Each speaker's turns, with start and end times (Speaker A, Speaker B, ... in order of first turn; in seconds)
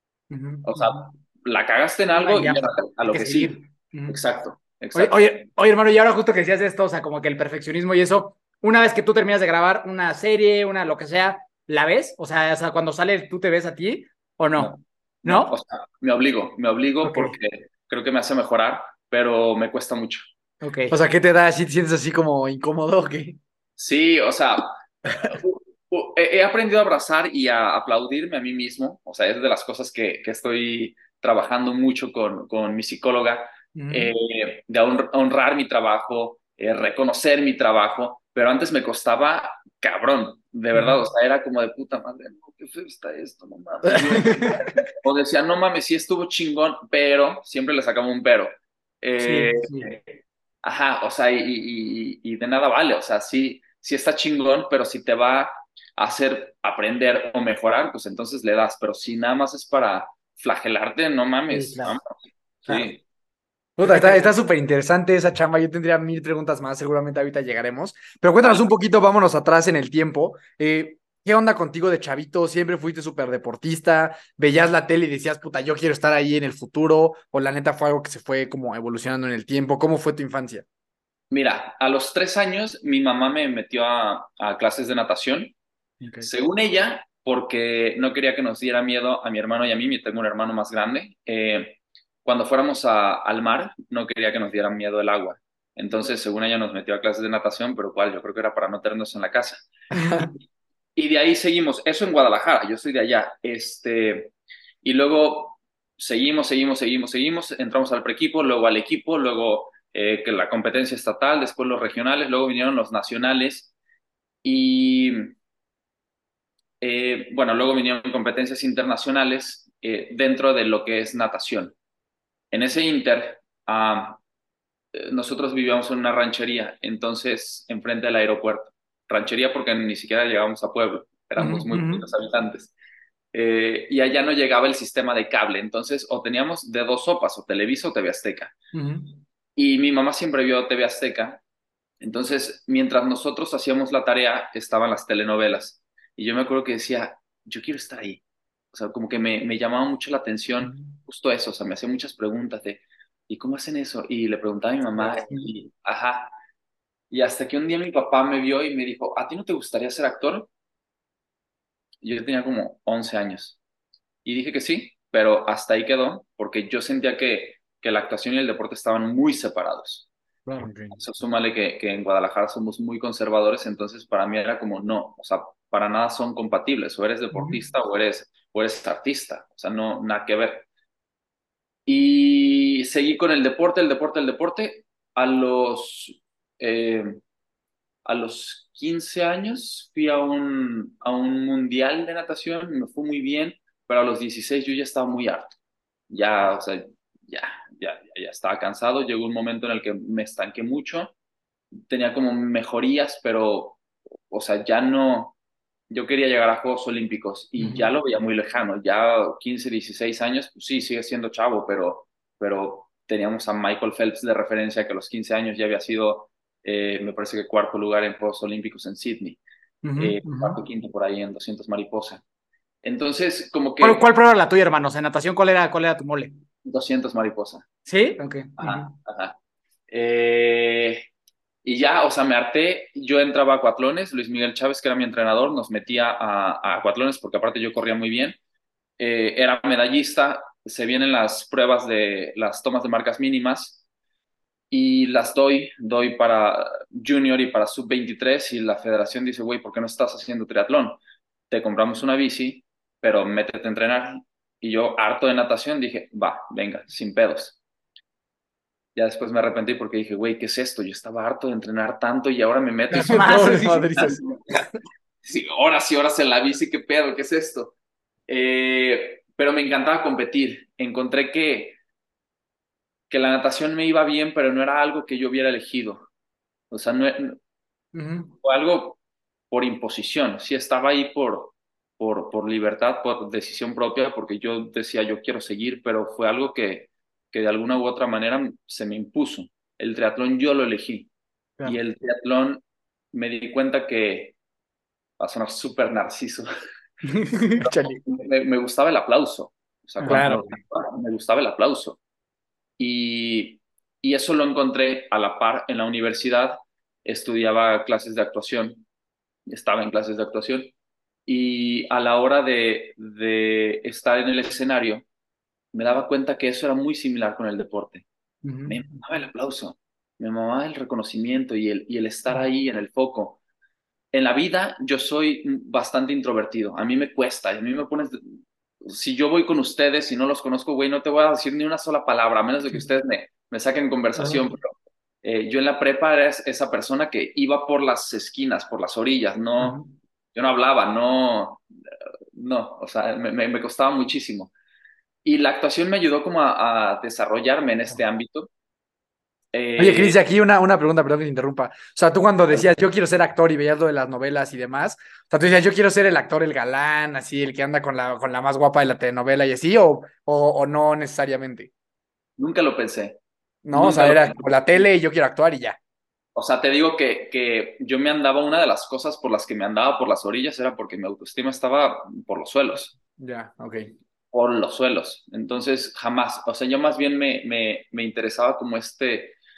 Speaker A: 0.3-1.1, 2.1-4.2, 4.9-15.5, 17.0-17.4, 20.6-20.9, 33.7-34.1, 40.7-41.1, 44.1-44.5, 49.2-49.9, 61.5-62.0, 62.7-62.9, 63.8-64.3, 86.0-86.3, 99.9-100.3, 131.4-132.1, 138.7-139.2, 150.6-151.0, 155.0-155.5, 170.4-170.9, 177.3-177.6, 207.6-207.9, 219.8-220.6, 223.8-226.3, 227.8-228.9, 262.9-263.9, 277.9-278.3, 297.1-297.7, 300.0-300.4, 318.4-318.8, 334.1-334.5, 339.6-339.9
Speaker B: 0.6-5.3, 14.6-20.3, 23.8-50.0, 50.6-62.0, 62.6-63.0, 68.4-68.7, 81.3-85.5, 86.2-99.7, 101.0-113.7, 114.4-115.3, 116.8-121.7, 122.5-124.2, 124.9-132.7, 133.3-138.5, 139.6-141.4, 142.0-148.2, 148.7-156.3, 157.1-160.5, 162.0-163.6, 164.2-170.1, 170.9-180.7, 181.8-187.2, 188.0-195.5, 196.1-201.1, 201.9-205.3, 205.9-219.4, 220.0-222.2, 222.8-224.0, 226.6-227.7, 228.6-229.4, 229.9-231.1, 231.6-238.4, 239.0-243.8, 244.7-251.0, 251.5-257.6, 258.9-264.4, 265.2-267.7, 268.3-271.8, 273.1-276.1, 276.7-277.4, 278.4-279.0, 279.5-291.1, 291.6-292.6, 293.1-294.4, 295.2-296.5, 297.6-302.0, 302.8-308.8, 309.5-310.7, 311.2-315.1, 315.7-318.1, 318.7-323.4, 324.1-328.2, 328.8-334.7, 335.2-339.8, 340.3-341.6, 342.3-344.5, 345.2-348.5, 349.5-350.2, 362.4-363.2, 363.7-364.9, 366.4-372.9, 374.3-379.4
Speaker C: 20.9-23.4, 63.8-80.7, 263.0-264.2, 297.7-298.0, 300.0-300.4, 349.8-361.7, 363.6-365.8, 373.2-373.9